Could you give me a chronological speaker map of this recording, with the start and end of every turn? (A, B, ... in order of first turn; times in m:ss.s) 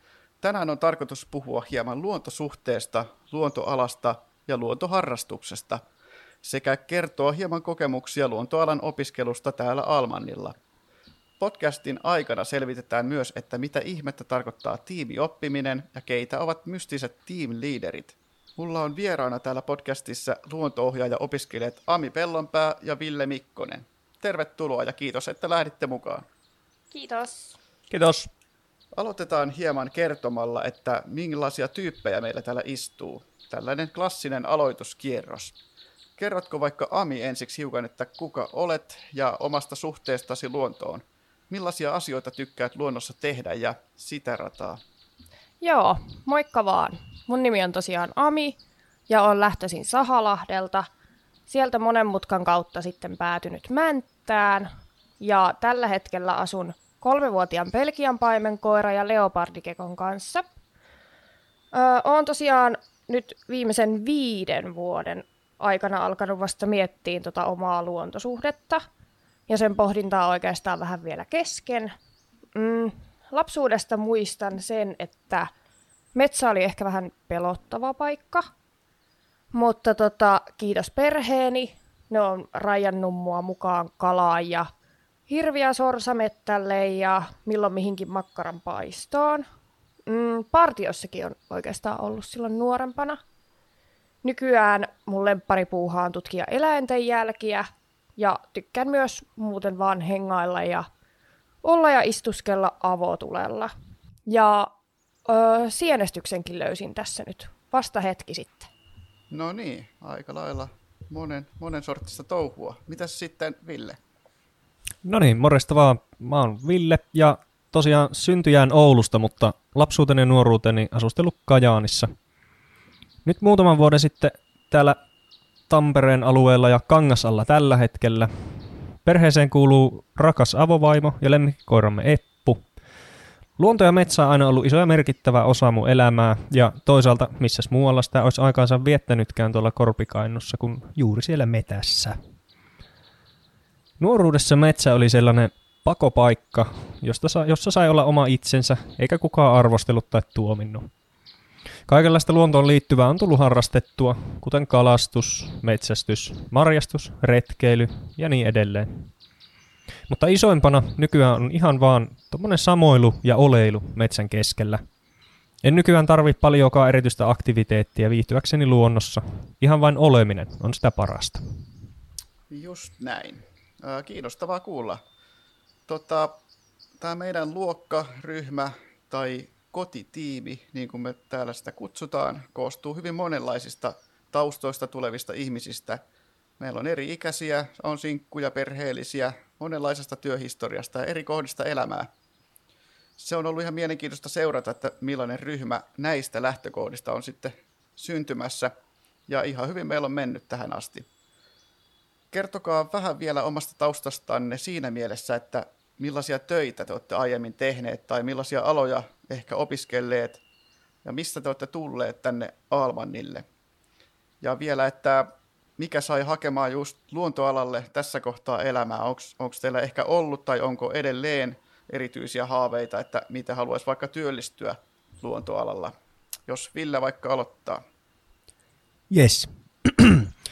0:00.4-0:05.8 A
0:06.4-0:10.6 A
0:11.4-0:26.2 A
0:26.9-0:27.6 B
0:27.9-0:28.3 C
0:28.9-0:35.5 A
0:36.2-0:44.8 A
0:45.6-0:48.6 B
0:49.1-0:50.8 B
0:51.5-0:54.7 B
0:55.2-1:00.4 B
1:01.7-1:08.8 B
1:09.5-1:11.9 B
1:12.5-1:15.5 B
1:16.1-1:18.4 B
1:19.5-1:24.7 B
1:25.3-1:29.4 B
1:30.1-1:33.2 B
1:34.2-1:40.8 B
1:41.6-1:43.7 B
1:44.3-1:44.7 B
1:45.2-1:48.7 B
1:49.3-1:54.0 A
1:55.0-2:02.1 C
2:03.2-2:05.0 C
2:05.7-2:12.6 C
2:13.6-2:22.2 C
2:24.0-2:30.9 C
2:31.9-2:39.1 C
2:40.1-2:44.8 C
2:45.6-2:51.6 C
2:52.5-2:55.0 A
2:55.9-2:56.4 A
2:57.0-3:06.0 A
3:06.6-3:12.1 A
3:13.2-3:18.7 A
3:19.3-3:21.0 A
3:22.3-3:30.4 A
3:31.0-3:33.4 A
3:34.4-3:45.9 A
3:46.5-3:47.8 A
3:49.1-3:50.3 C